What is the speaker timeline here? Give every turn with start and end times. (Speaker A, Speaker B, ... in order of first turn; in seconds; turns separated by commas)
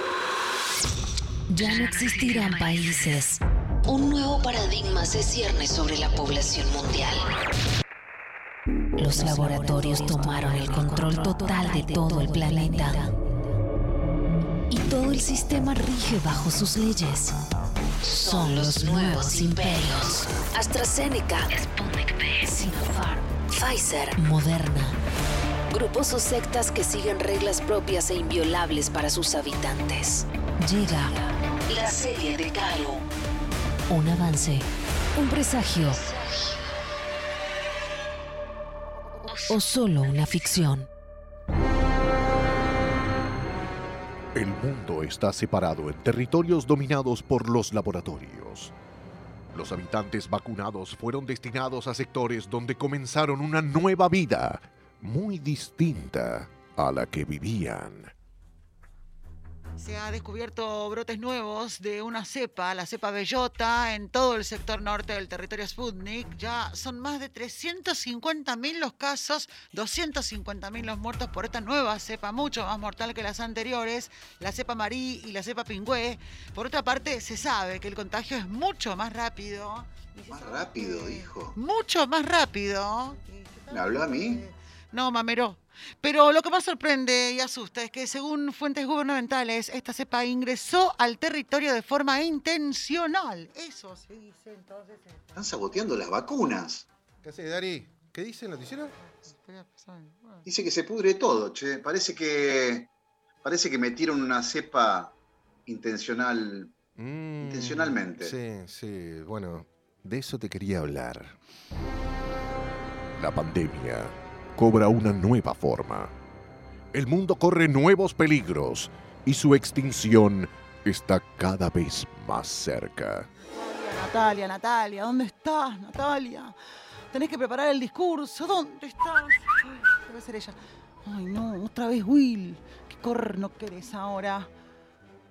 Speaker A: 1.5-3.4, Speaker B: 3.9-7.2, Speaker A: 9.0-13.1, Speaker A: 14.7-17.3, Speaker B: 18.1-21.6, Speaker A: 18.2-19.9, Speaker A: 22.4-23.2, Speaker B: 23.5-24.1, Speaker A: 24.1-25.0, Speaker A: 26.0-27.0, Speaker B: 27.0-29.9, Speaker A: 30.0-31.1, Speaker B: 31.7-33.0, Speaker A: 33.9-34.6, Speaker A: 35.2-36.0, Speaker A: 39.5-40.9, Speaker C: 44.4-48.7, Speaker C: 49.5-58.1, Speaker D: 59.8-95.2, Speaker E: 80.3-81.6, Speaker E: 83.7-84.5, Speaker E: 95.4-96.9, Speaker F: 97.2-98.9, Speaker D: 99.2-100.5, Speaker E: 100.5-102.9, Speaker E: 103.4-105.2, Speaker E: 105.7-106.8, Speaker F: 107.0-111.4, Speaker E: 107.4-108.4, Speaker C: 113.2-116.1, Speaker C: 117.0-123.2, Speaker D: 123.5-126.5, Speaker D: 127.1-134.5